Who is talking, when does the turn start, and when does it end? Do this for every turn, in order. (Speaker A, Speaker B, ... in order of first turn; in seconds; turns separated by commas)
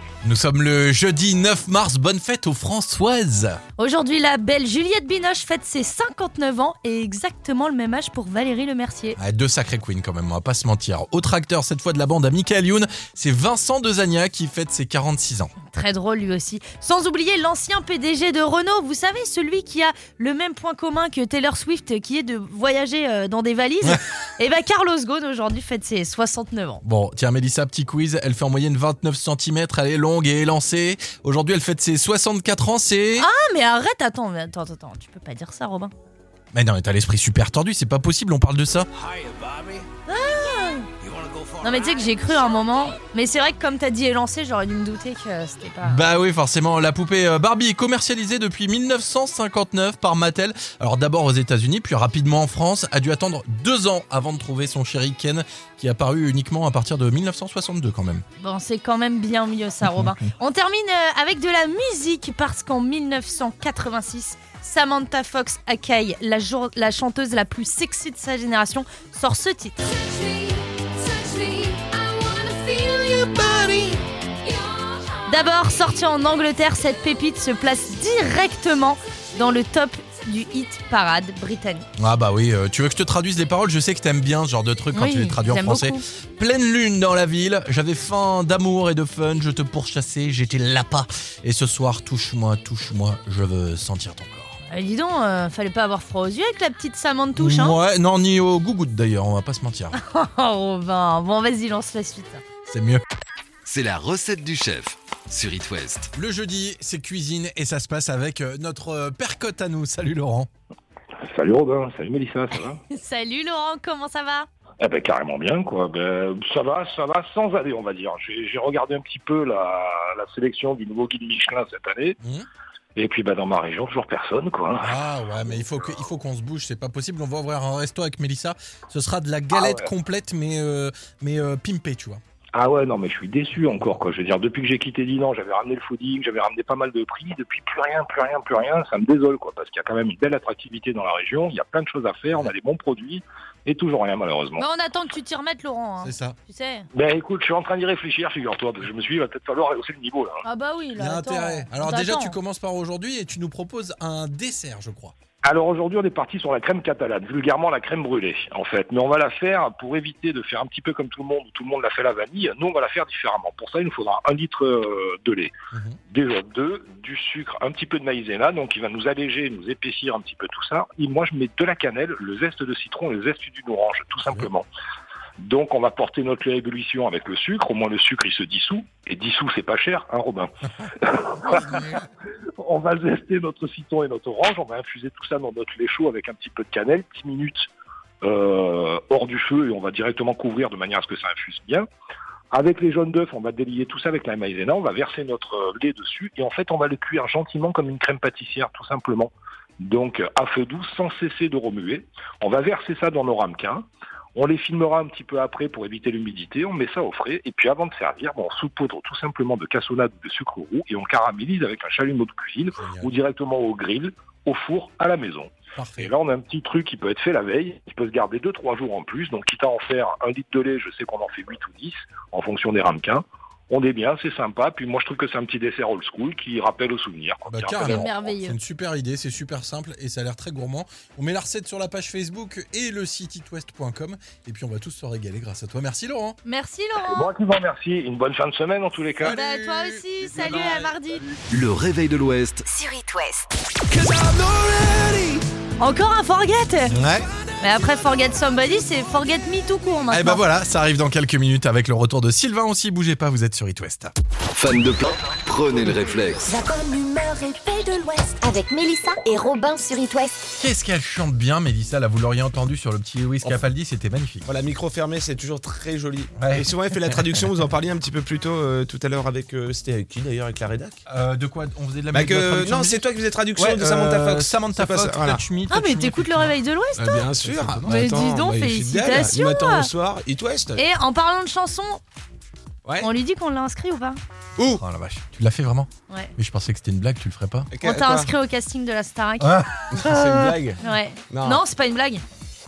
Speaker A: 0.2-3.6, Speaker B: 3.8-9.2, Speaker A: 9.2-15.5, Speaker B: 15.7-26.8, Speaker A: 26.8-33.3, Speaker B: 33.2-35.9, Speaker A: 36.5-38.9, Speaker B: 40.1-40.9, Speaker B: 41.6-46.1, Speaker A: 45.8-58.2, Speaker B: 58.4-70.3, Speaker A: 59.8-60.1, Speaker A: 72.8-74.0, Speaker B: 75.3-81.8, Speaker A: 82.0-94.6, Speaker B: 84.9-86.0, Speaker B: 94.7-97.8, Speaker A: 97.3-100.0, Speaker B: 99.9-102.4, Speaker A: 102.7-103.0, Speaker C: 103.6-106.1, Speaker A: 106.1-110.5, Speaker D: 111.3-112.8, Speaker B: 112.9-114.5, Speaker D: 114.8-122.2, Speaker A: 122.2-122.5, Speaker D: 123.0-124.9, Speaker A: 124.8-132.2, Speaker D: 129.5-129.9, Speaker D: 132.5-144.6, Speaker B: 144.6-146.9, Speaker A: 146.0-146.4, Speaker D: 146.9-150.4, Speaker B: 150.4-152.3, Speaker A: 150.9-155.1, Speaker D: 155.4-165.5, Speaker A: 165.7-166.0, Speaker D: 166.1-174.7, Speaker D: 175.4-187.7, Speaker D: 188.2-191.9, Speaker D: 192.5-228.1, Speaker A: 212.8-213.1, Speaker A: 215.7-216.1, Speaker A: 227.5-236.4, Speaker B: 227.8-228.6, Speaker B: 236.4-237.2, Speaker D: 237.0-239.4, Speaker A: 239.2-240.9, Speaker B: 239.2-241.2, Speaker C: 241.5-242.7, Speaker E: 242.7-243.5, Speaker A: 243.9-245.4, Speaker B: 245.8-246.9, Speaker A: 246.9-247.3, Speaker B: 247.6-250.4, Speaker A: 250.1-254.1, Speaker C: 254.5-256.5, Speaker E: 256.4-260.4, Speaker A: 260.6-264.5, Speaker F: 264.4-271.0, Speaker A: 266.3-266.7, Speaker A: 271.1-273.0, Speaker F: 272.1-275.4, Speaker A: 273.6-278.1, Speaker B: 275.7-277.3, Speaker F: 277.0-280.8, Speaker B: 277.9-279.9, Speaker B: 280.8-282.0, Speaker B: 283.0-284.2, Speaker F: 284.6-284.8, Speaker A: 284.8-287.7, Speaker F: 287.7-288.3, Speaker B: 287.8-289.6, Speaker A: 289.4-290.5, Speaker F: 289.9-290.8, Speaker B: 290.8-292.2, Speaker F: 291.3-291.6